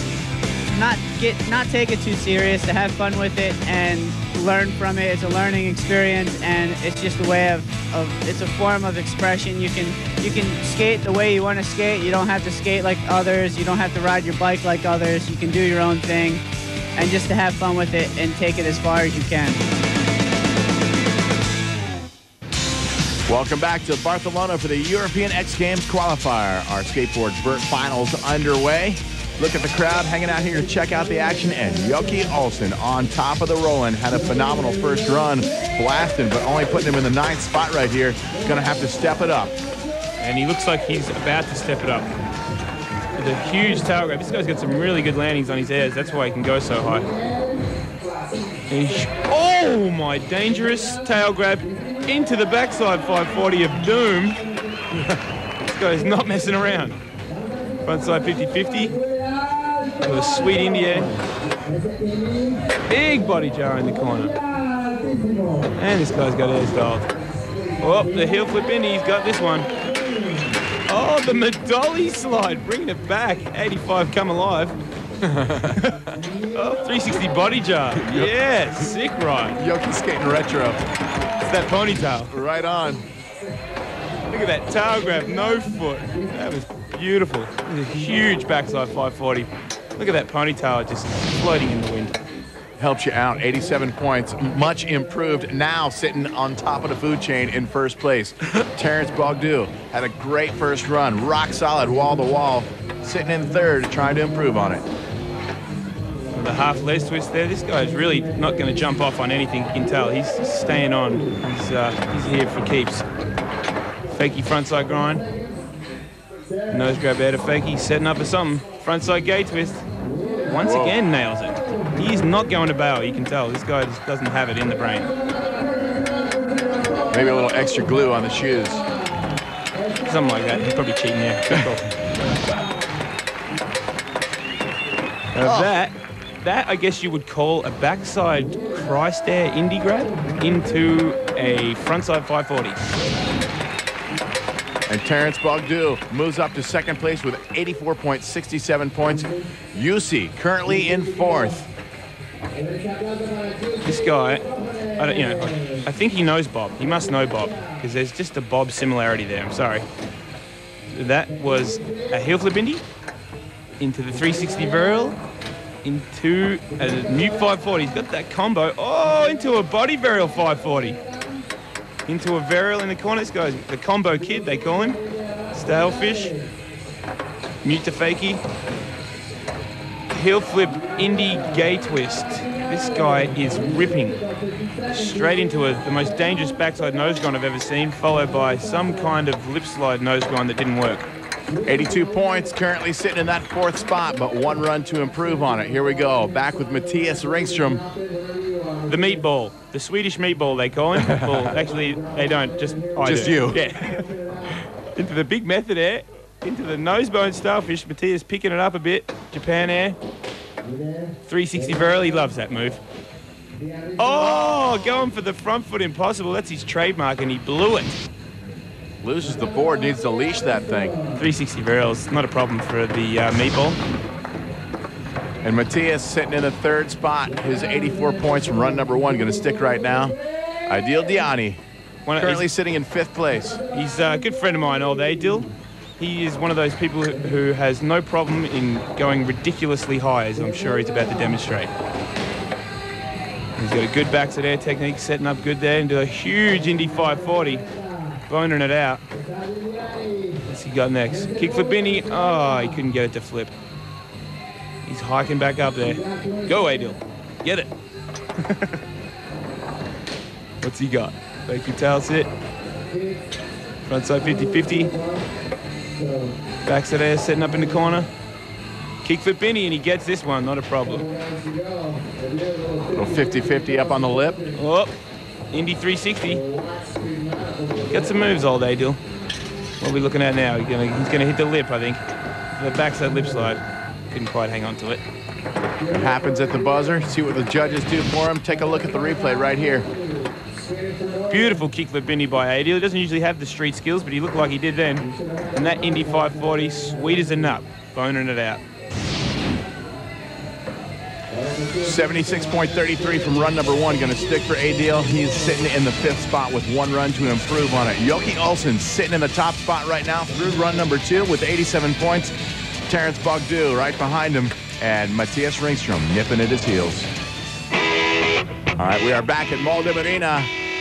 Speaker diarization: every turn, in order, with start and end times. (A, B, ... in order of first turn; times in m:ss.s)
0:00.7-0:16.4 A
0:17.0-0:19.6 A
0:23.3-0:39.6 B
0:40.2-0:42.1 C
0:43.2-0:47.1 C
0:48.7-0:54.4 C
0:55.6-0:57.0 C
0:57.8-0:59.0 C
1:00.0-1:01.2 C
1:02.9-1:04.4 C
1:05.8-1:07.1 C
1:07.8-1:09.7 C
1:10.9-1:14.8 C
1:15.2-1:15.8 B
1:15.7-1:16.0 C
1:16.5-1:19.6 C
1:18.0-1:18.3 B
1:19.6-1:20.8 B
1:21.5-1:22.3 C
1:22.3-1:23.0 B
1:24.3-1:32.2 C
1:32.8-1:44.8 B
1:46.3-1:53.0 C
1:54.1-1:55.2 C
1:56.7-1:59.8 C
2:00.5-2:05.1 C
2:00.6-2:01.0 B
2:07.1-2:08.8 B
2:10.0-2:11.9 C
2:15.3-2:22.8 C
2:15.4-2:15.7 B
2:24.9-2:31.6 B
2:33.8-2:39.9 C
2:40.9-2:42.8 C
2:43.8-2:45.2 C
2:45.8-2:51.0 C
2:52.1-2:55.0 C
2:55.5-2:56.4 C
2:57.6-2:58.4 C
3:00.1-3:04.2 C
3:04.9-3:11.1 C
3:11.6-3:17.8 B
3:18.9-3:24.3 C
3:21.0-3:21.5 B
3:23.0-3:23.6 B
3:25.0-3:30.0 C
3:31.2-3:32.8 C
3:34.0-3:38.0 C
3:39.0-3:41.0 B
3:41.2-3:43.8 C
3:45.4-3:51.6 B
3:52.1-3:52.5 C
3:52.2-3:53.6 B
3:53.7-4:01.7 C
4:03.6-4:07.7 C
4:08.3-4:09.0 C
4:10.5-4:13.5 C
4:14.8-4:17.7 C
4:18.4-4:18.8 C
4:20.6-4:22.3 C
4:23.8-4:25.0 C
4:26.6-4:28.1 C
4:29.0-4:31.1 C
4:32.9-4:34.4 B
4:34.6-4:35.0 C
4:35.5-4:36.4 C
4:37.8-4:39.0 C
4:39.8-4:45.0 C
4:45.9-4:49.9 B
4:51.3-4:58.6 C
5:01.8-5:12.3 B
5:12.9-5:17.1 B
5:18.8-5:20.5 B